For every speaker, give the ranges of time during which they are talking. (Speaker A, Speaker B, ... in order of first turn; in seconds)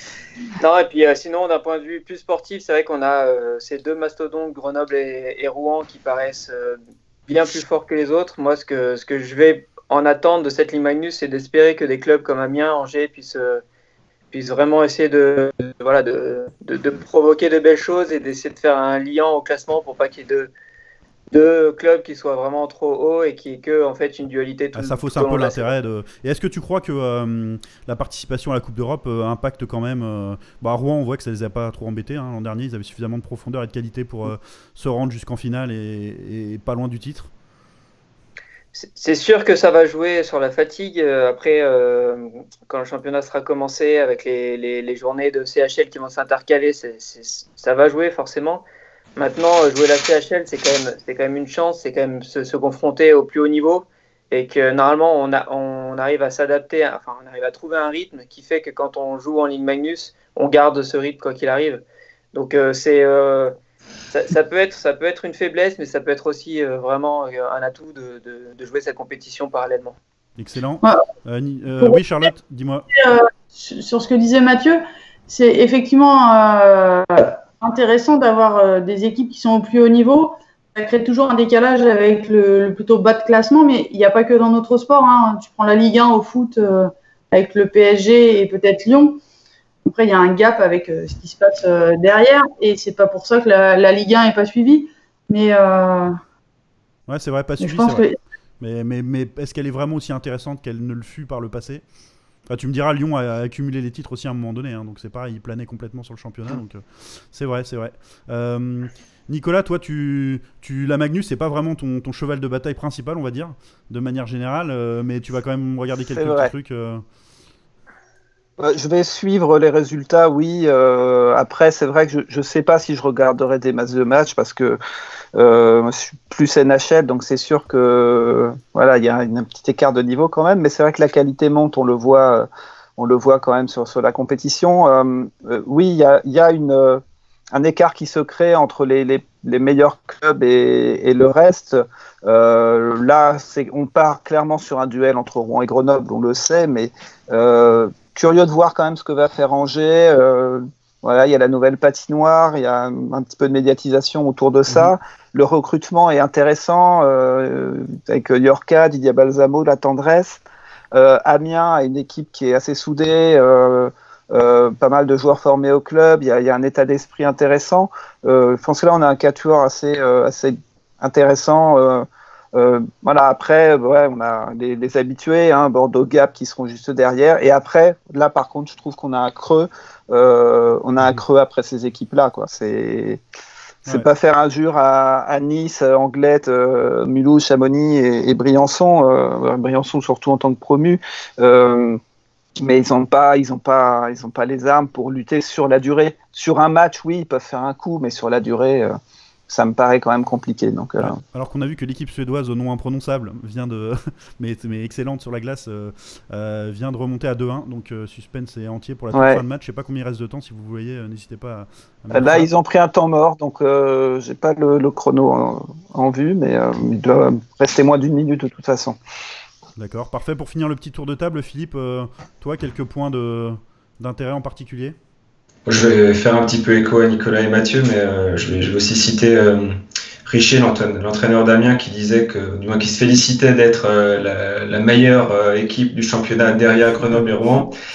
Speaker A: 0.6-13.6, 14.3-20.5, 21.3-25.7, 38.7-48.6, 49.1-61.8, 62.3-63.5, 64.1-70.0
Speaker B: 24.8-37.3, 70.4-72.9, 97.1-98.0, 98.6-101.8, 102.5-117.0, 201.0-212.5, 219.8-224.9, 237.0-237.2
Speaker C: 72.9-89.2, 89.8-96.1, 97.6-98.2
Speaker D: 116.1-116.5, 118.6-124.8, 125.3-160.4, 160.9-183.2, 183.9-192.0, 192.6-198.9, 199.5-201.2, 209.1-209.4, 212.1-219.0
Speaker E: 225.7-237.7